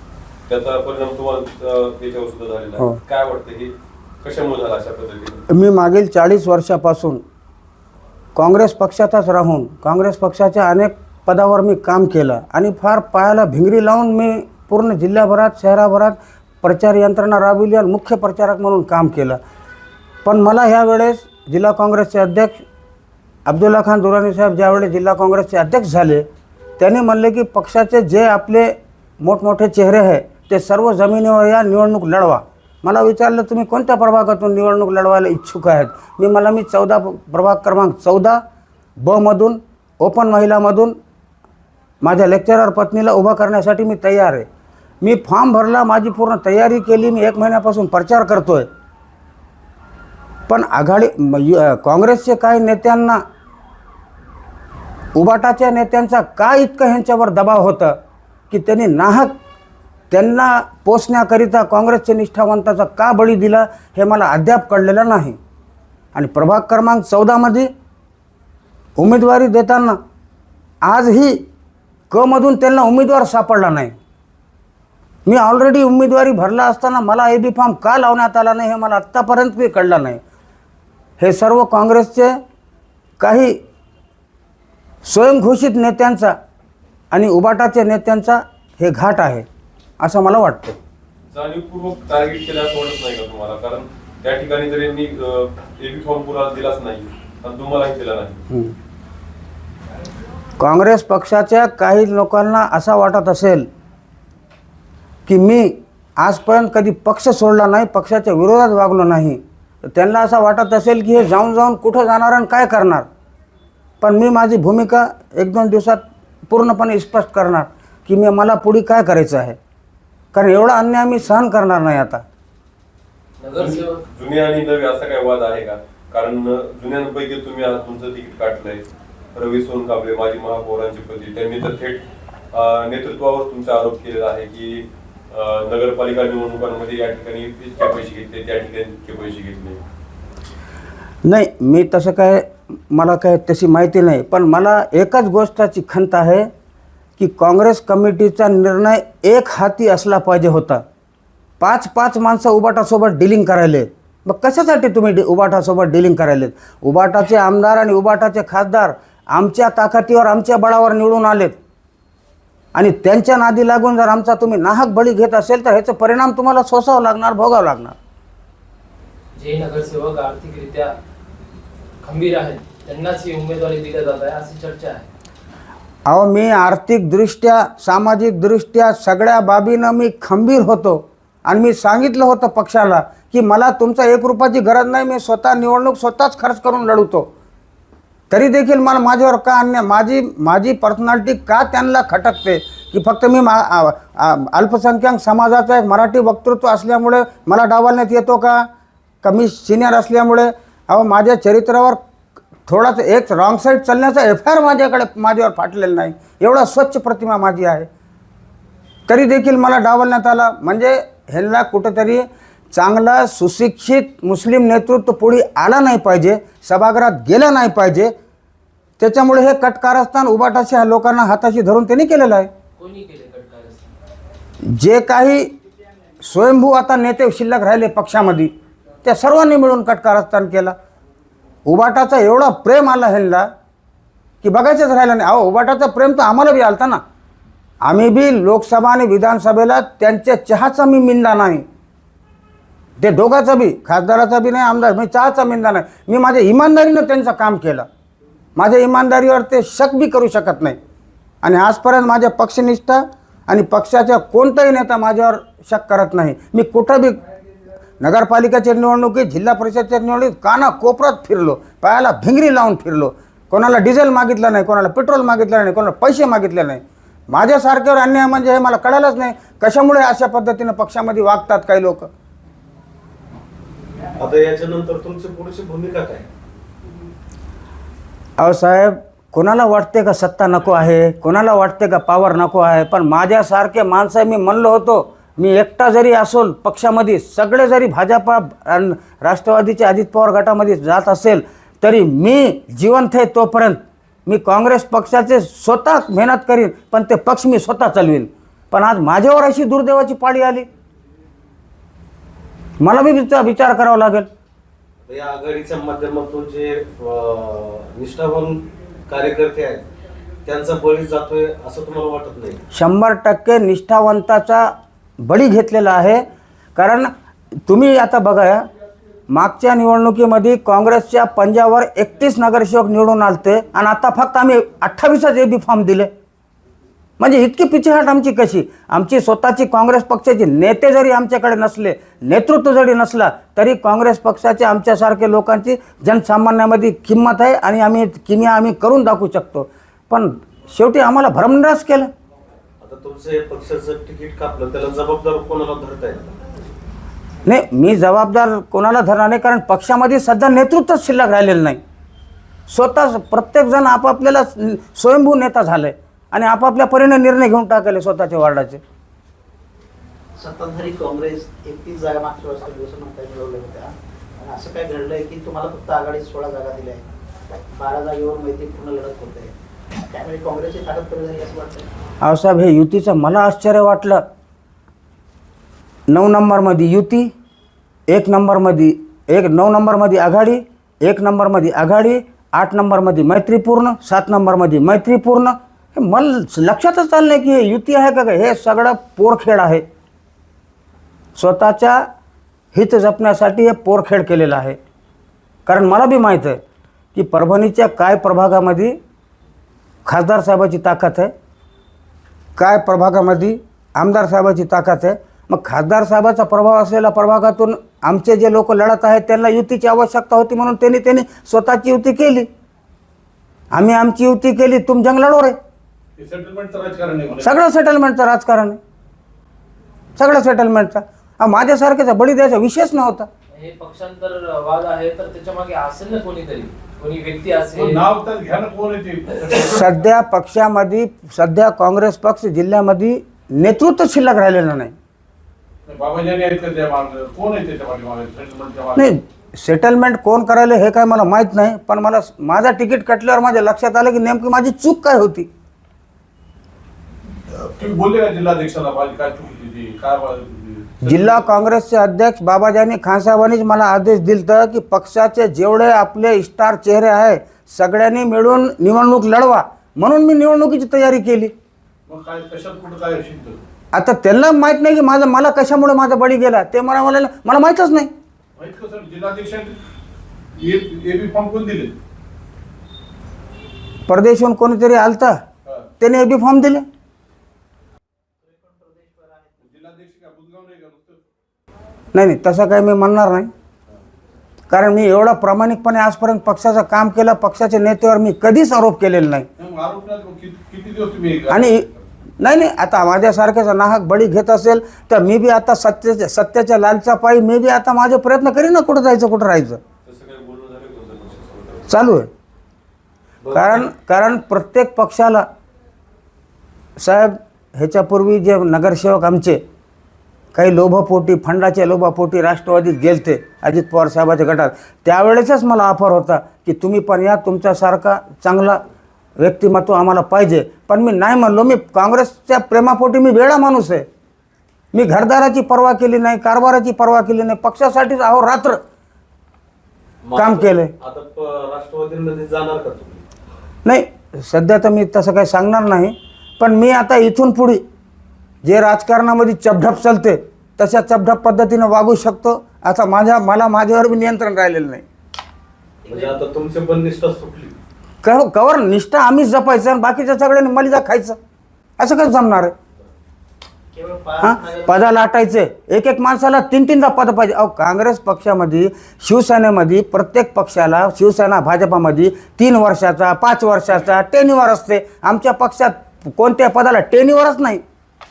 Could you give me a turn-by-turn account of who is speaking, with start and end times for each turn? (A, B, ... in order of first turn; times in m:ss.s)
0:00.5-0:05.4 A
0:05.5-0:07.2 B
0:08.4-0:19.4 B
0:20.2-0:22.6 B
0:23.5-0:26.3 B
0:26.8-0:38.4 B
0:39.0-0:41.0 B
0:42.0-0:44.5 B
0:45.0-0:48.7 B
0:50.5-0:53.2 B
0:55.2-0:58.0 B
0:58.5-0:59.4 B
1:00.1-1:05.4 B
1:06.1-1:07.7 B
1:09.0-1:10.0 B
1:10.8-1:11.4 B
1:12.1-1:14.0 B
1:15.3-1:20.2 B
1:21.2-1:22.4 B
1:23.2-1:23.6 B
1:25.0-1:26.4 B
1:27.1-1:29.5 B
1:30.0-1:30.8 B
1:31.3-1:38.4 A
1:38.5-1:38.8 B
1:40.6-1:43.7 B
1:45.3-1:53.1 B
1:54.0-1:59.6 B
2:00.3-2:02.2 B
2:03.4-2:04.0 C
2:03.6-2:19.8 A
2:21.2-2:26.5 B
2:27.2-2:30.8 B
2:31.6-2:41.6 B
2:42.7-2:48.0 B
2:49.4-2:51.0 C
2:52.0-2:55.1 C
2:56.1-3:07.3 B
3:08.3-3:18.7 B
3:19.2-3:22.0 B
3:22.7-3:27.9 B
3:29.1-3:38.1 B
3:39.0-3:42.5 B
3:42.8-3:44.0 C
3:44.6-3:45.5 B
3:46.2-3:48.5 B
3:49.0-3:50.8 B
3:51.7-3:53.5 B
3:54.4-3:57.0 B
3:57.8-4:01.6 B
4:03.0-4:07.9 B
4:08.6-4:10.8 B
4:11.4-4:17.2 B
4:18.0-4:32.1 B
4:34.2-4:36.3 D
4:38.4-5:00.7 B
5:02.8-5:04.3 B
5:05.0-5:09.9 D
5:10.4-5:12.6 D
5:12.7-5:16.2 B
5:16.8-5:17.1 B
5:17.7-5:18.6 B
5:19.3-5:26.1 B
5:27.2-5:42.1 B
5:42.8-5:46.4 D
5:47.4-5:51.8 B
5:52.7-5:58.8 B
6:00.4-6:09.5 E
6:10.1-6:11.9 E
6:12.2-6:14.2 B
6:16.1-6:17.3 B
6:18.1-6:29.8 B
6:31.4-6:32.0 B
6:32.7-6:34.8 B
6:35.7-6:36.6 B
6:37.2-6:39.0 B
6:40.0-6:41.3 B
6:42.6-6:52.5 B
6:53.7-6:55.6 B
6:56.2-6:57.5 F
6:57.4-6:58.8 B
7:00.2-7:03.3 B
7:03.5-7:08.0 C
7:07.7-7:09.9 F
7:09.6-7:14.9 B
7:15.9-7:19.1 F
7:19.0-7:25.5 B
7:27.4-7:31.5 F
7:31.0-7:41.5 B
7:42.1-7:43.6 F
7:43.9-7:48.1 B
7:48.6-7:49.8 F
7:50.6-7:52.0 F
7:54.1-7:55.4 B
7:56.0-7:56.9 B
7:58.4-7:59.6 E
7:59.6-8:01.2 F
8:02.1-8:03.5 B
8:04.7-8:09.5 B
8:09.6-8:11.9 F
8:11.5-8:11.9 B
8:12.4-8:19.8 B
8:20.0-8:21.9 A
8:21.9-8:22.3 B
8:23.4-8:23.9 D
8:23.5-8:25.5 B
8:27.0-8:29.6 B
8:30.5-8:38.8 B
8:39.4-8:44.1 B
8:44.9-8:48.8 B
8:50.2-8:53.2 D
8:50.4-8:50.9 B
8:53.8-8:57.8 B
8:58.6-9:05.0 B
9:06.0-9:06.4 E
9:06.1-9:07.8 D
9:08.2-9:11.4 B
9:12.0-9:12.8 B
9:13.9-9:15.0 E
9:14.4-9:27.8 B